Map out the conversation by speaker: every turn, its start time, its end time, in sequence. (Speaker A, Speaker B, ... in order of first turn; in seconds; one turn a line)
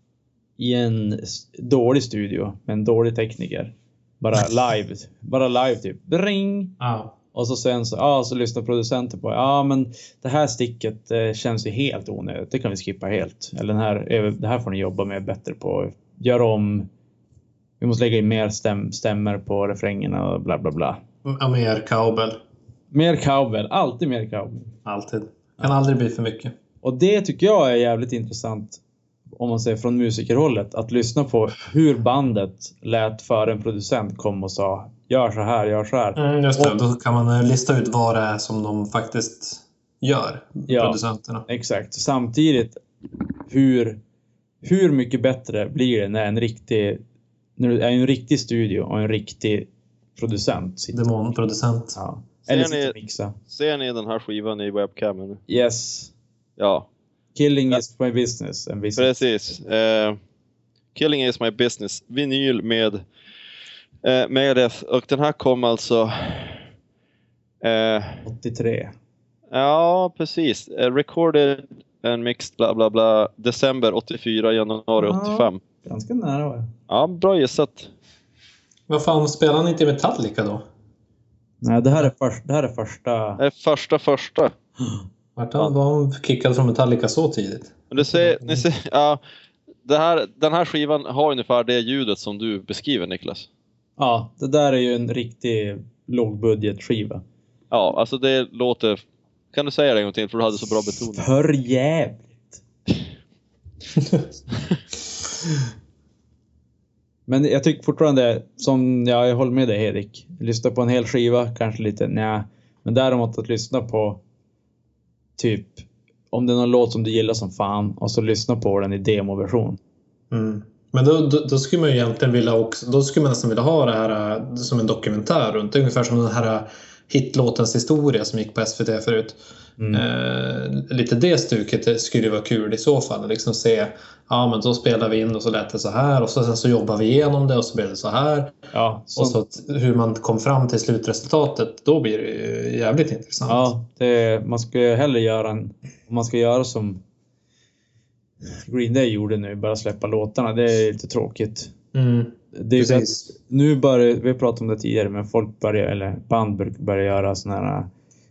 Speaker A: 0.6-6.7
Speaker B: 6.8-7.1
Speaker A: 7.3-16.9
Speaker A: 17.8-21.0
Speaker B: 21.2-22.4
Speaker A: 22.9-24.7
Speaker B: 24.8-26.5
Speaker A: 26.8-28.8
Speaker A: 29.4-36.8
Speaker B: 36.1-41.5
Speaker A: 40.7-42.8
Speaker A: 43.5-44.0
Speaker A: 44.6-47.0
Speaker A: 47.6-51.0
Speaker B: 50.9-52.0
Speaker A: 51.9-53.4
Speaker C: 52.5-52.9
Speaker C: 53.5-55.4
Speaker A: 55.5-56.1
Speaker C: 56.6-56.9
Speaker A: 57.3-59.2
Speaker C: 59.0-60.2
Speaker C: 60.9-63.0
Speaker C: 64.0-66.6
Speaker C: 67.6-68.2
Speaker A: 68.2-68.9
Speaker C: 69.5-75.6
Speaker A: 75.0-76.7
Speaker C: 76.9-77.9
Speaker B: 78.9-80.6
Speaker A: 81.6-83.4
Speaker C: 83.4-84.5
Speaker B: 85.4-87.8
Speaker C: 87.9-89.2
Speaker A: 88.0-88.6
Speaker C: 89.8-93.5
Speaker A: 94.0-97.2
Speaker C: 97.7-99.0
Speaker C: 99.5-101.2
Speaker A: 101.2-102.6
Speaker A: 107.3-114.2
Speaker A: 115.4-119.8
Speaker B: 120.3-129.4
Speaker A: 129.8-130.0
Speaker B: 129.9-138.6
Speaker A: 138.7-139.4
Speaker B: 139.1-143.7
Speaker A: 143.5-147.0
Speaker A: 148.4-151.7
Speaker B: 151.9-153.3
Speaker A: 152.5-157.9